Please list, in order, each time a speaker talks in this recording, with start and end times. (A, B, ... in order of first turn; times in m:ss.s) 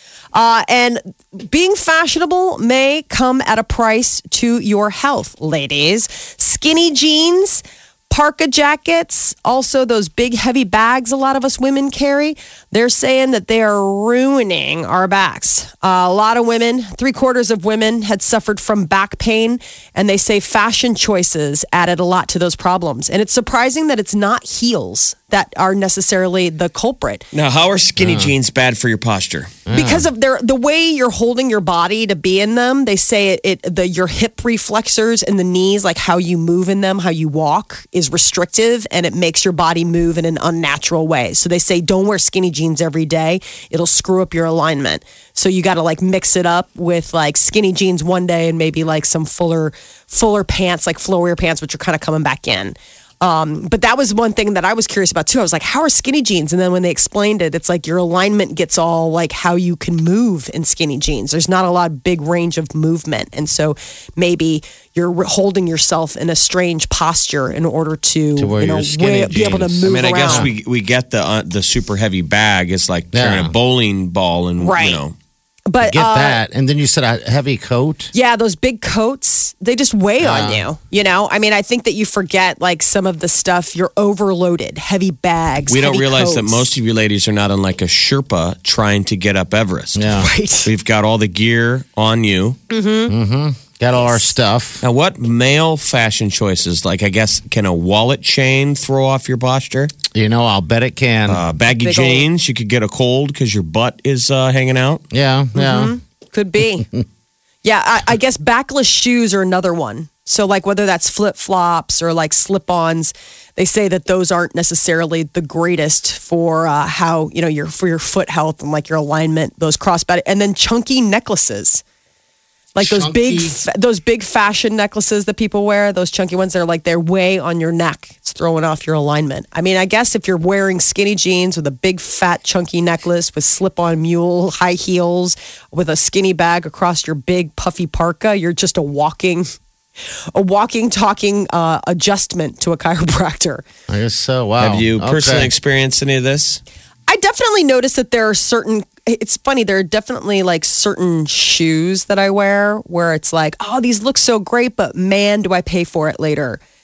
0:00.3-0:27.3 A
0:27.3-0:29.6 B
0:28.0-0:28.3 C
0:29.6-0:30.1 C
0:29.7-1:10.5 A
1:08.4-1:10.5 C
1:09.8-1:15.1 B
1:13.1-1:13.5 C
1:14.6-1:15.0 A
1:15.7-1:16.4 A
1:15.8-1:18.1 C
1:18.1-1:26.7 A
1:20.2-1:20.6 C
1:25.7-1:32.6 B
1:29.9-1:30.3 C
1:30.2-1:30.7 A
1:32.7-1:33.1 A
1:33.1-1:34.8 C
1:34.8-1:39.9 B
1:40.1-1:41.4 C
1:41.3-1:45.0 B
1:41.8-1:42.2 A
1:45.1-1:45.9 C
1:45.5-1:46.9 A
1:47.6-2:01.8 A
2:02.8-2:19.5 A
2:02.8-2:03.6 C
2:20.3-2:23.6 A
2:23.9-2:25.5 C
2:24.6-2:26.6 B
2:27.1-2:36.6 A